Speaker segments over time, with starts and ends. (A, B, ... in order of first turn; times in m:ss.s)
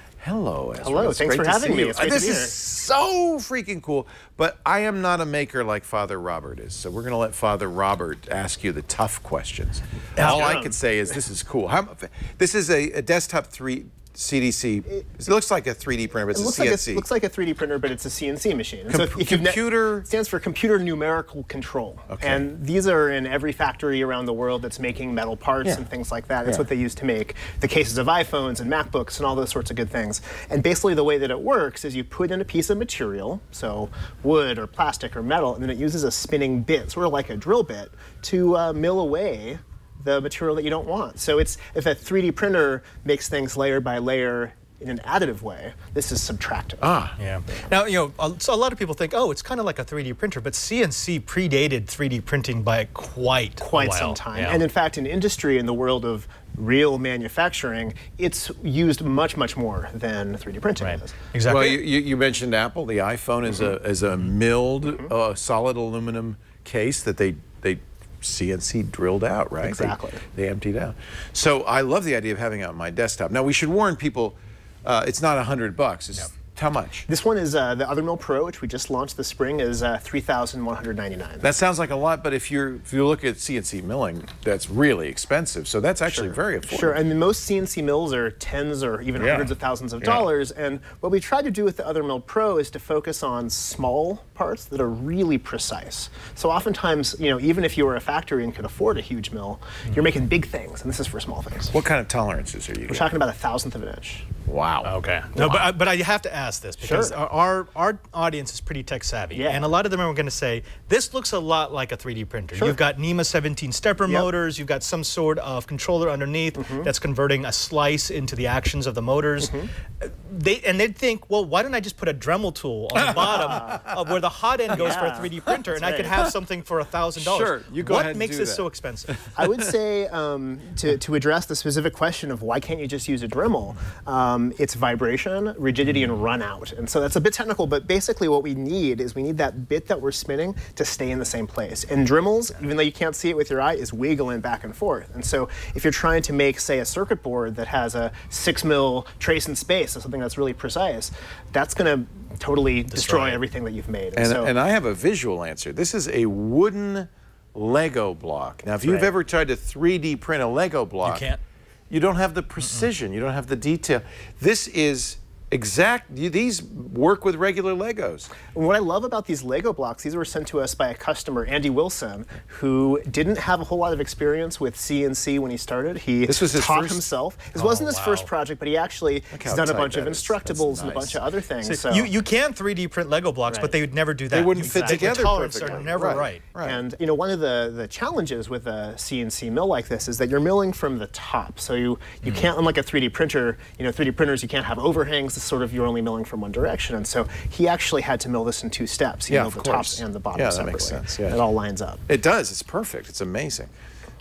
0:00.2-0:17.1 A
0:00.8-0:02.6 B
0:10.2-0:10.5 C
0:10.2-0:11.0 B
0:16.3-0:47.7 B
0:18.9-0:20.1 A
0:22.1-0:22.5 A
0:46.8-0:47.2 A
0:47.2-0:54.6 C
0:53.6-1:01.2 B
1:00.8-1:01.8 C
1:01.4-1:17.1 A
1:03.5-1:03.8 B
1:04.8-1:05.1 B
1:09.6-1:10.2 B
1:17.1-1:21.5 B
1:21.4-1:27.0 A
1:26.1-1:41.7 B
1:29.2-1:29.5 A
1:30.0-1:30.3 A
1:41.7-1:43.1 A
1:42.9-1:44.3 B
1:44.5-1:44.9 A
1:44.8-2:09.2 C
1:45.4-1:45.7 B
1:46.8-1:47.2 B
1:49.3-1:49.8 B
1:56.6-1:56.9 B
1:59.4-1:59.7 B
2:03.0-2:03.9 A
2:03.3-2:03.8 B
2:04.8-2:06.1 B
2:04.8-2:05.5 A
2:07.2-2:09.7 A
2:09.4-2:34.5 B
2:32.9-2:33.4 C
2:34.2-2:41.3 A
2:38.8-2:39.1 B
2:41.0-2:41.4 C
2:41.9-2:48.4 A
2:42.6-2:42.9 C
2:48.4-3:02.1 B
2:56.2-2:57.1 A
2:57.5-2:58.3 C
2:59.3-3:01.2 A
3:01.6-3:06.5 C
3:03.5-3:03.8 B
3:04.3-3:06.8 A
3:04.6-3:22.0 B
3:12.2-3:12.5 A
3:19.3-3:21.4 A
3:22.1-3:23.7 A